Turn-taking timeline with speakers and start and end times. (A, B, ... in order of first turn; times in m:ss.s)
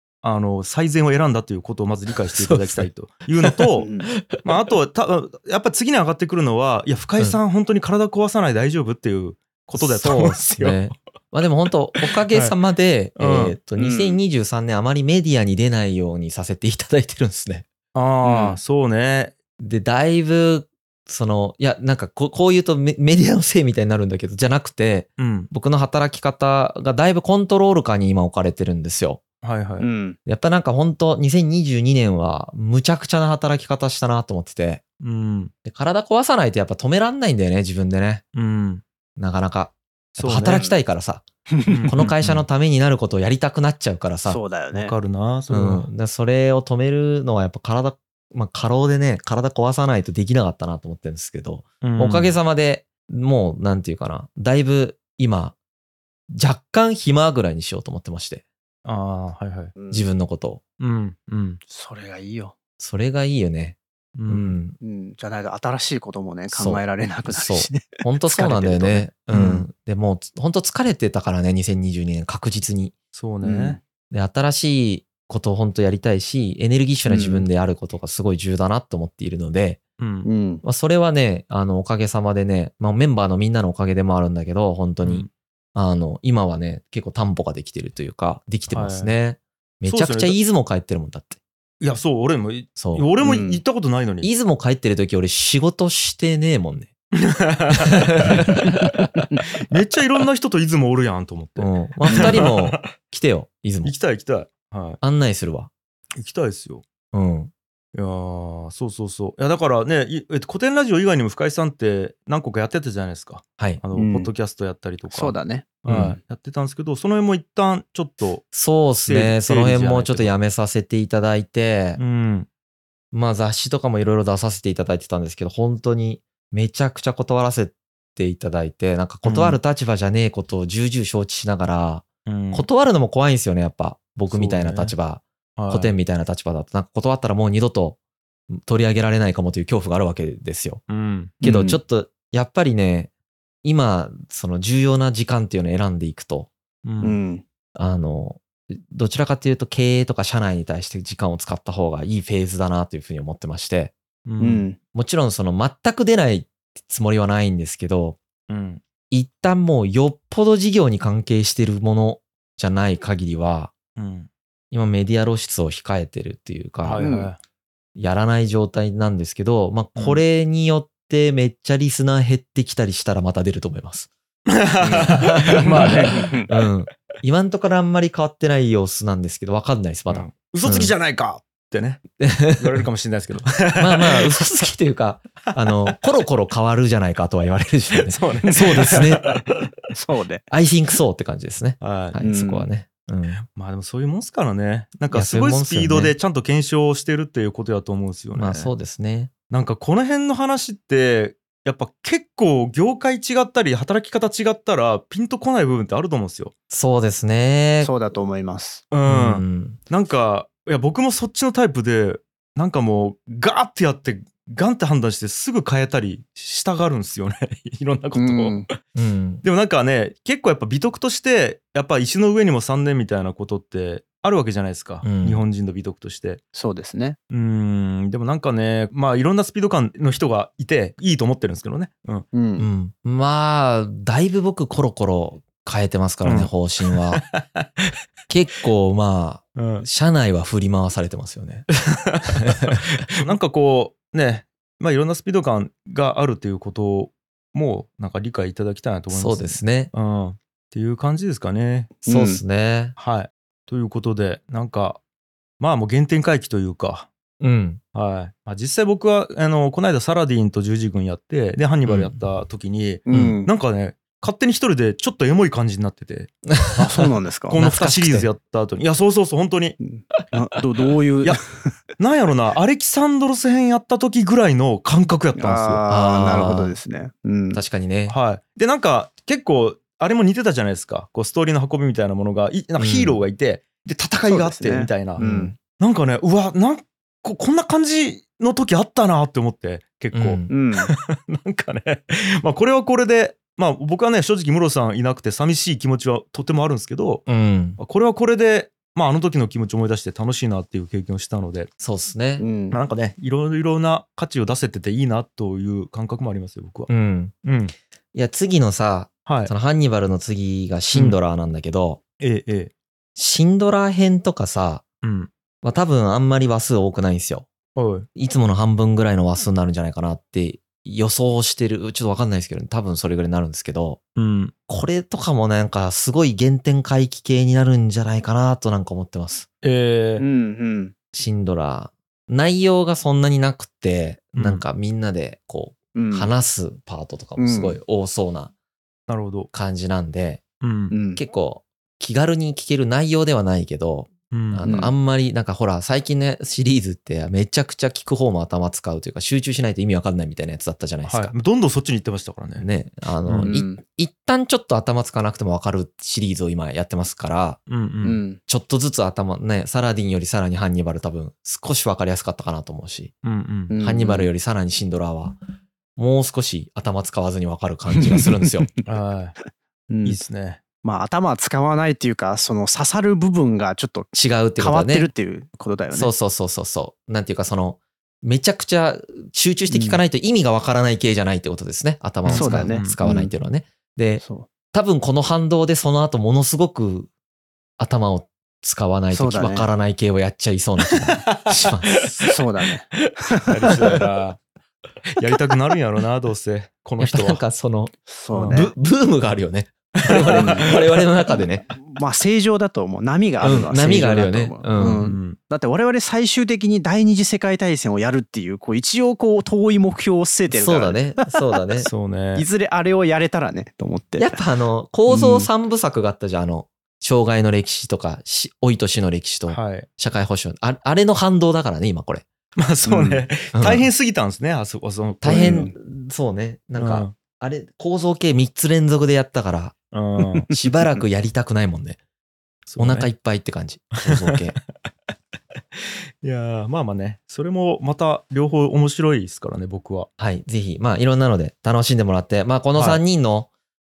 0:00.2-0:03.9 A
0:02.3-0:02.9 B
0:03.8-0:04.1 C
0:04.4-0:10.8 A
0:09.8-0:17.6 B
0:12.0-0:12.5 A
0:13.2-0:13.6 A
0:13.8-0:14.2 C
0:17.9-0:19.3 A
0:18.2-0:18.6 C
0:19.6-0:29.2 B
0:25.2-0:25.5 A
0:29.4-0:29.9 A
0:29.8-0:30.2 C
0:30.2-0:34.8 B
0:35.0-0:35.5 A
0:35.6-0:38.2 B
0:38.3-0:38.8 A
0:39.2-0:41.2 B
0:40.2-0:40.6 A
0:40.4-0:40.8 C
0:41.5-0:41.9 C
0:41.7-0:42.4 A
0:41.9-0:44.4 B
0:44.2-0:44.9 C
0:44.7-0:45.9 A
0:45.5-0:55.6 B
0:51.8-0:52.4 A
0:56.3-0:58.4 B
0:58.8-0:59.7 A
0:59.8-1:00.1 C
0:59.9-1:00.6 B
1:00.8-1:01.6 A
1:01.7-1:02.5 C
1:02.8-1:04.8 B
1:04.2-1:04.6 A
1:04.8-1:09.1 C
1:06.5-1:12.9 B
1:09.3-1:09.6 A
1:13.1-1:13.8 A
1:13.4-1:13.8 C
1:14.1-1:19.8 B
1:17.1-1:17.4 C
1:20.0-1:20.3 A
1:20.2-1:20.6 C
1:20.6-1:31.4 B
1:25.0-1:25.3 A
1:28.7-1:29.2 A
1:29.8-1:30.4 A
1:31.8-1:34.3 A
1:32.8-1:33.1 B
1:33.2-1:33.6 C
1:34.2-1:36.9 B
1:37.3-1:38.5 A
1:38.3-1:38.7 B
1:39.7-1:42.8 A
1:41.6-1:43.9 B
1:43.8-1:45.0 A
1:45.0-1:45.7 B
1:46.2-1:46.8 A
1:47.1-1:47.5 B
1:47.9-1:58.4 A
1:54.0-1:54.3 C
1:55.1-1:56.1 C
1:55.9-1:56.2 B
1:58.5-2:02.0 B
1:59.0-2:00.3 A
2:02.0-2:02.5 A
2:03.1-2:18.0 B
2:09.2-2:09.6 A
2:12.2-2:12.7 A
2:14.3-2:14.9 A
2:15.6-2:16.0 A
2:18.5-2:20.8 B
2:20.9-2:21.3 A
2:21.4-2:21.8 C
2:21.4-2:23.1 B
2:23.6-2:26.5 B
2:26.8-2:27.2 A
2:27.0-2:27.4 C
2:27.8-2:33.9 B
2:34.2-2:34.6 A
2:34.4-2:34.8 C
2:34.9-2:38.2 B
2:38.5-2:38.8 A
2:39.1-2:43.7 B
2:44.0-2:44.3 A
2:44.7-2:47.1 B
2:46.8-2:47.4 A
2:47.0-2:47.3 C
2:48.0-2:54.1 B
2:50.0-2:50.2 A
2:54.6-2:56.5 A
2:54.8-2:56.5 C
2:55.0-3:00.9 B
3:00.1-3:02.0 A
3:02.2-3:02.8 B
3:02.6-3:04.3 A
3:03.8-3:09.3 B
3:05.6-3:05.9 A
3:08.0-3:09.7 A
3:09.9-3:10.4 C
3:10.5-3:13.4 B
3:11.8-3:12.2 A
3:12.2-3:12.7 C
3:13.5-3:18.7 A
3:15.1-3:16.1 B
3:18.3-3:19.3 B
3:19.5-3:26.5 A
3:26.7-3:27.9 B
3:27.8-3:28.8 C
3:28.9-3:38.8 A
3:29.0-3:29.8 B
3:38.1-3:38.7 C
3:38.9-3:39.4 B
3:39.4-3:46.4 A
3:45.0-3:45.4 B
3:46.5-3:47.2 C
3:47.3-3:52.3 A
3:52.3-3:52.7 C
3:52.6-3:57.2 B
3:56.2-3:57.9 A
3:58.3-4:01.7 B
3:59.6-3:59.8 A
4:02.0-4:12.0 A
4:02.4-4:02.8 B
4:09.1-4:09.9 B
4:12.0-4:12.4 C
4:12.0-4:13.0 B
4:13.0-4:15.0 A
4:15.6-4:17.1 A
4:17.4-4:17.8 B
4:17.9-4:26.3 A
4:21.8-4:22.2 B
4:23.1-4:23.5 C
4:23.1-4:23.4 B
4:26.5-4:26.8 B
4:26.8-4:27.6 C
4:27.5-4:29.8 A
4:27.5-4:28.3 B
4:29.8-4:31.7 C
4:32.0-4:35.8 A
4:35.3-4:37.6 C
4:35.9-4:36.8 B
4:37.5-4:38.2 B
4:38.1-4:57.2 A
4:42.8-4:43.2 B
4:44.2-4:45.5 C
4:45.2-4:45.5 B
4:50.1-4:50.5 B
4:50.5-4:50.9 C
4:57.3-4:57.8 B
4:57.8-5:01.7 A
5:01.8-5:02.5 B
5:02.4-5:02.8 C
5:02.7-5:06.9 A
5:06.9-5:07.3 B
5:07.4-5:07.7 A
5:08.1-5:12.0 B
5:09.3-5:09.5 A
5:12.2-5:12.7 A
5:13.2-5:14.8 B
5:15.0-5:15.3 A
5:15.6-5:17.5 B
5:17.8-5:18.1 A
5:18.2-5:24.0 B
5:24.2-5:24.5 A
5:24.7-5:29.5 B
5:29.6-5:30.2 A
5:30.2-5:30.9 C
5:31.1-5:38.5 B
5:34.3-5:34.6 A
5:35.9-5:36.3 C
5:37.4-5:37.8 C
5:39.1-5:39.5 A
5:39.5-5:40.4 B
5:40.6-5:40.9 A
5:40.9-5:41.2 C
5:41.2-5:51.3 B
5:44.3-5:44.6 A
5:44.6-5:44.9 C
5:51.0-5:52.6 A
5:52.6-5:57.6 B
5:53.2-5:53.5 A
5:53.4-5:53.8 C
5:57.7-5:58.2 A
5:58.0-5:58.4 C
5:58.4-6:03.1 B
6:03.2-6:03.7 A
6:03.7-6:04.3 C
6:03.8-6:05.4 B
6:06.0-6:08.7 B
6:08.1-6:08.5 C
6:08.8-6:09.3 A
6:09.9-6:10.2 C
6:10.0-6:10.6 A
6:10.8-6:16.1 C
6:14.1-6:15.1 B
6:15.9-6:27.1 B
6:19.7-6:20.0 C
6:22.2-6:23.0 A
6:22.3-6:23.3 C
6:24.2-6:24.5 C
6:27.8-6:32.2 B
6:29.1-6:29.7 C
6:30.9-6:32.3 A
6:32.3-6:34.0 C
6:33.0-6:34.4 A
6:35.2-6:37.4 A
6:37.0-6:37.9 B
6:38.1-6:38.7 C
6:38.3-6:38.6 A
6:38.5-6:41.7 B
6:40.0-6:40.8 A
6:40.1-6:40.7 C
6:41.3-6:51.2 C
6:43.4-6:45.0 B
6:44.8-6:45.4 A
6:50.5-6:51.9 B
6:51.8-6:52.5 A
6:52.4-6:54.4 C
6:54.2-7:02.2 B
6:55.1-6:55.5 C
6:59.5-6:59.9 A
7:02.6-7:05.7 A
7:02.8-7:03.2 C
7:03.5-7:03.9 B
7:05.2-7:09.7 B
7:05.2-7:05.7 C
7:06.8-7:07.1 A
7:09.9-7:10.4 A
7:10.5-7:12.0 B
7:12.7-7:13.1 A
7:12.8-7:14.6 B
7:14.1-7:14.9 A
7:15.7-7:20.1 A
7:20.2-7:23.5 B
7:22.8-7:23.0 A